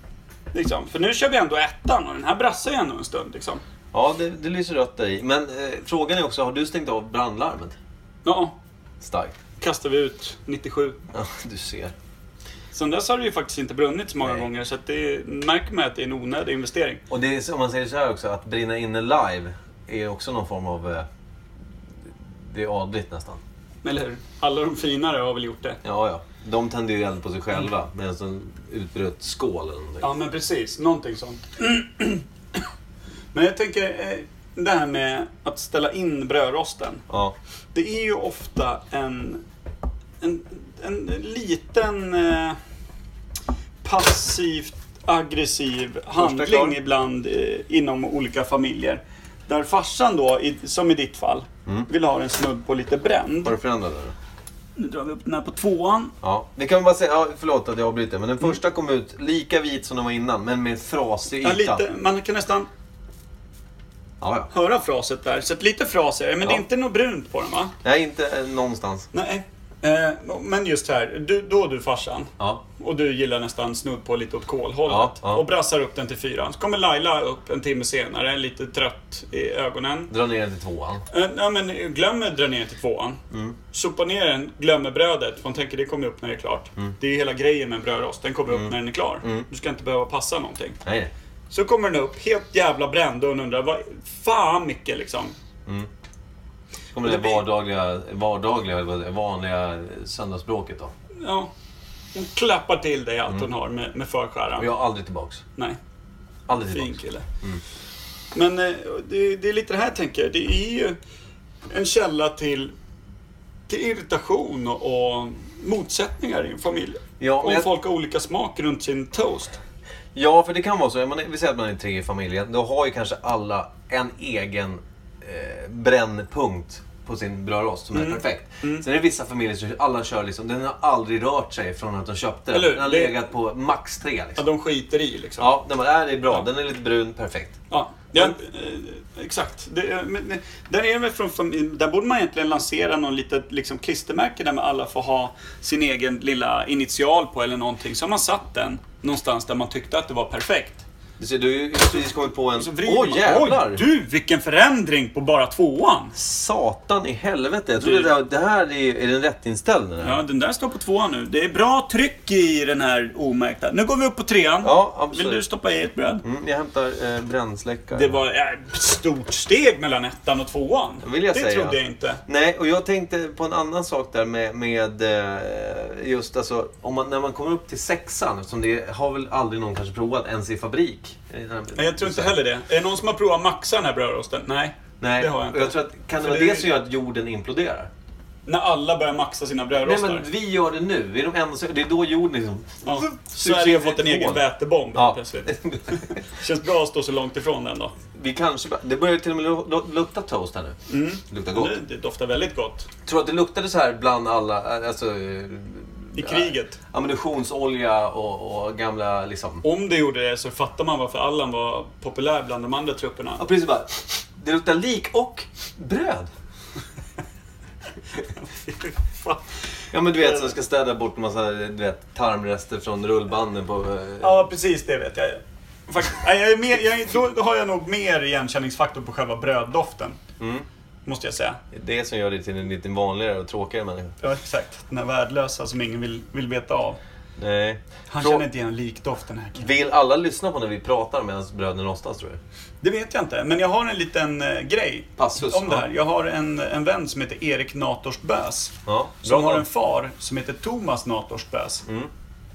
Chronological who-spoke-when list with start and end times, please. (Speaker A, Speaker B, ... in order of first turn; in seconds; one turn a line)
Speaker A: 0.5-3.6
Speaker B: 3.9-7.7
Speaker A: 8.2-8.6
Speaker B: 9.0-9.4
Speaker A: 9.6-11.0
Speaker B: 11.1-11.9
Speaker A: 12.7-17.0
Speaker B: 17.1-21.1
Speaker B: 22.5-23.4
Speaker A: 23.8-25.8
Speaker B: 25.8-30.1
Speaker A: 30.0-32.6
Speaker A: 33.3-37.0
Speaker B: 37.1-37.3
Speaker A: 37.7-39.4
Speaker A: 40.2-42.6
Speaker A: 43.8-53.5
Speaker B: 46.2-46.8
Speaker B: 53.4-54.1
Speaker A: 54.8-56.1
Speaker B: 56.2-61.8
Speaker A: 61.4-62.7
Speaker B: 64.2-64.5
Speaker A: 64.5-67.7
Speaker B: 67.8-69.1
Speaker A: 69.1-80.1
Speaker B: 74.9-75.4
Speaker B: 80.1-81.0
Speaker A: 81.1-83.2
Speaker B: 83.3-83.5
Speaker A: 83.7-90.8
Speaker B: 88.5-89.5
Speaker B: 90.8-91.1
Speaker A: 91.5-95.3
Speaker B: 96.9-100.9
Speaker A: 97.0-97.4
Speaker A: 101.2-101.5
Speaker A: 102.1-104.7
Speaker B: 104.6-105.4
Speaker B: 106.5-107.6
Speaker A: 106.7-107.2
Speaker A: 108.3-111.0
Speaker A: 111.7-112.7
Speaker A: 113.7-119.6
Speaker B: 117.2-117.7
Speaker B: 120.1-134.4
Speaker A: 127.9-128.8
Speaker A: 132.5-133.2
Speaker A: 134.4-135.5
Speaker B: 135.4-137.6
Speaker A: 137.7-150.8
Speaker B: 151.2-153.8
Speaker A: 152.6-156.1
Speaker B: 156.1-160.2
Speaker A: 157.8-158.1
Speaker A: 160.0-166.2
Speaker B: 164.6-165.4
Speaker B: 166.2-168.2
Speaker A: 167.9-172.2
Speaker B: 171.0-171.8
Speaker B: 172.3-182.4
Speaker A: 181.8-186.7
Speaker B: 185.0-187.9
Speaker A: 188.4-190.2
Speaker B: 189.8-194.4
Speaker A: 192.8-197.9
Speaker B: 194.9-196.2
Speaker B: 198.1-201.7
Speaker A: 200.9-202.9
Speaker B: 203.1-209.6
Speaker A: 206.1-206.8
Speaker A: 209.6-213.4
Speaker B: 213.4-216.3
Speaker A: 218.3-219.4
Speaker B: 219.9-224.4
Speaker A: 220.1-220.5
Speaker A: 224.2-230.2
Speaker B: 230.4-230.7
Speaker A: 231.1-231.6
Speaker B: 231.7-234.2
Speaker A: 234.2-237.0
Speaker B: 237.4-238.4
Speaker A: 238.1-239.7
Speaker B: 239.6-242.4
Speaker A: 242.8-251.8
Speaker B: 245.2-245.9
Speaker B: 248.9-249.6